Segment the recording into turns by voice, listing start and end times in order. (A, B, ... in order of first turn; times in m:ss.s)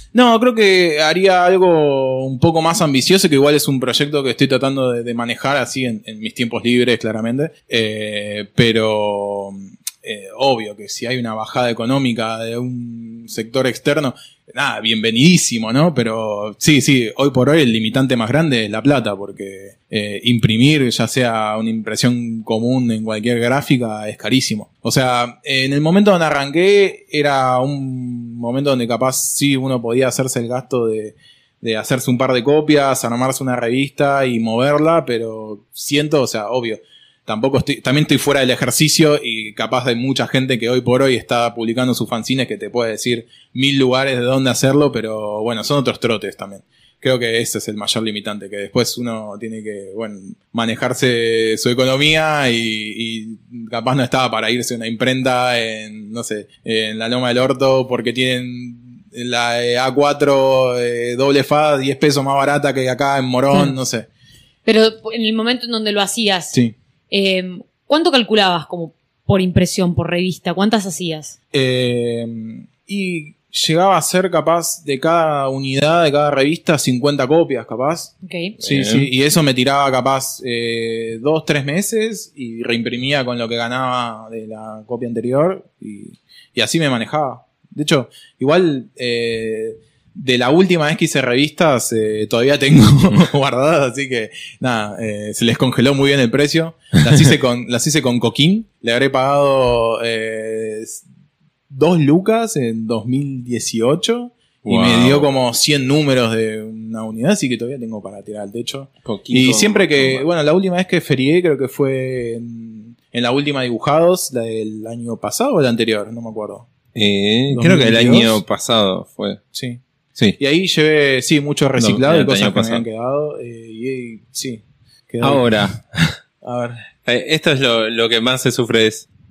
0:00.1-1:04.1 A
1:04.6-1:06.6 B
1:07.1-1:11.4 B
1:11.5-1:41.0 A
1:18.2-1:18.6 B
1:18.6-1:19.1 C
1:41.7-1:56.7 A
1:44.6-1:45.3 C
1:49.0-1:50.3 C
1:57.0-1:59.4 C
1:57.5-1:58.4 A
1:59.5-1:59.8 A
2:00.4-2:05.7 A
2:01.8-2:02.8 C
2:05.2-2:06.2 C
2:06.4-2:06.8 A
2:07.0-2:09.1 C